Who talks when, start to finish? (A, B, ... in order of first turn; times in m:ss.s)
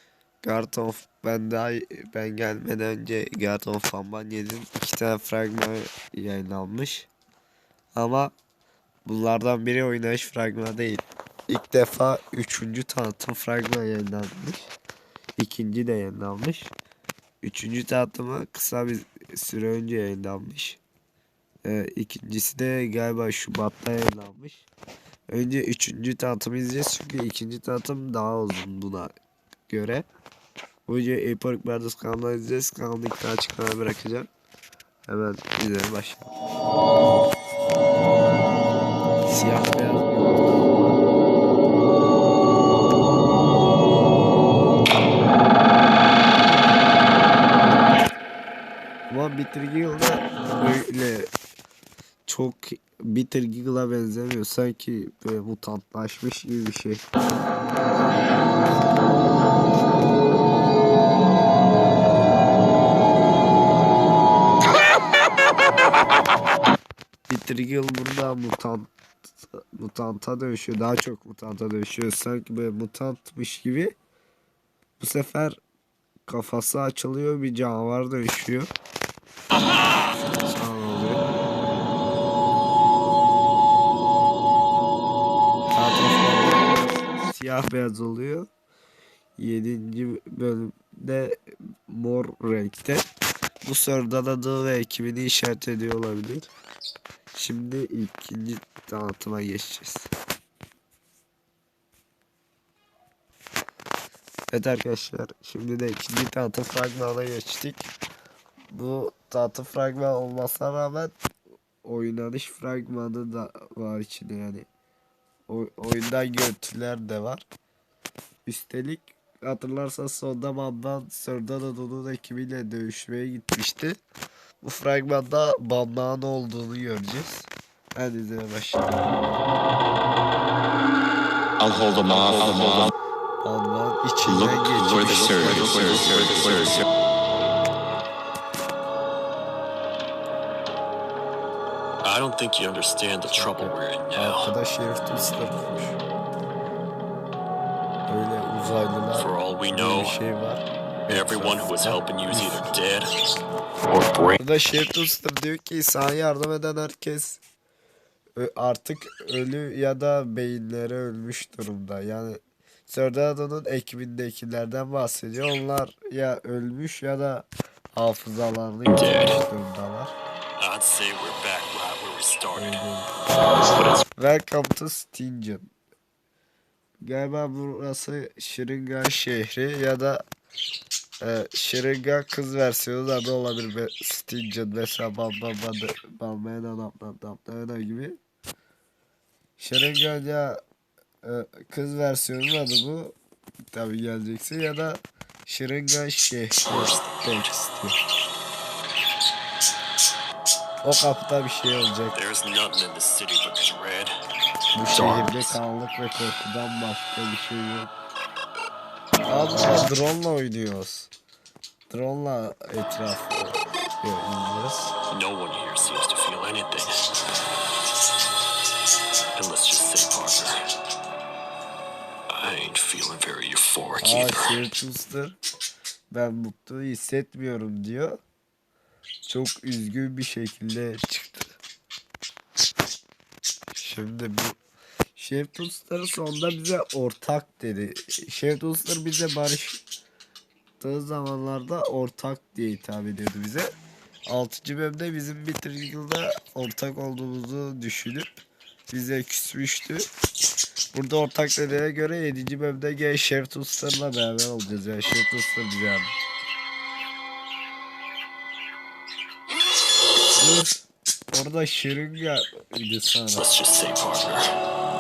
0:00.4-0:07.1 A
0:08.0-0:08.3 A
0:09.1-0:14.7 A
0:15.4-0:16.7 A
0:17.4-0:20.8 A
0:21.6-0:24.7 A
0:25.3-0:29.1 A
0:29.7-0:30.1 A
0:30.9-0:34.3 A
0:35.1-0:36.3 A
0:39.3-0:40.7 A
0:49.1-0:51.3 A
0:52.3-0:57.0 A
1:07.3-1:08.9 A
1:09.6-1:13.9 A
1:15.0-1:15.6 A
1:16.3-1:18.7 A
1:20.4-1:21.2 A
1:25.7-1:28.5 A
1:29.4-1:31.4 A
1:31.9-1:33.1 A
1:33.6-1:36.5 A
1:37.3-1:40.1 A
1:44.5-1:47.9 A
1:48.7-1:51.1 A
1:51.8-1:54.7 A
1:55.5-1:57.4 A
1:58.5-2:04.0 A
2:04.6-2:09.1 A
2:11.6-2:12.9 B
2:13.4-2:16.3 A
2:14.7-2:16.2 B
2:22.0-2:24.5 C
2:23.3-2:26.0 A
2:28.1-2:32.7 A
2:29.1-2:30.2 C
2:31.1-2:33.1 C
2:33.9-2:34.4 C
2:34.4-2:37.4 A
2:38.4-2:50.2 A
2:48.9-2:49.4 C
2:50.6-2:52.8 C
2:52.6-2:53.1 A
2:53.7-2:54.0 C
2:54.2-2:55.7 A
2:57.0-3:00.2 A
3:01.2-3:08.2 A
3:09.6-3:10.6 A
3:11.2-3:13.2 A
3:13.7-3:18.0 A
3:16.7-3:17.3 C
3:20.8-3:22.2 A
3:22.1-3:24.2 C
3:24.8-3:27.9 A
3:24.9-3:25.6 C
3:29.3-3:31.1 A
3:31.9-3:34.9 A
3:35.1-3:37.2 C
3:39.3-3:40.6 C
3:42.3-3:44.7 C
3:44.0-3:45.4 A
3:46.1-3:48.2 A
3:49.3-3:51.6 A
3:53.8-3:54.6 A
3:55.2-3:59.8 A
4:00.8-4:03.7 A
4:04.3-4:10.1 A
4:10.9-4:16.1 A
4:20.4-4:23.5 A
4:23.4-4:24.5 C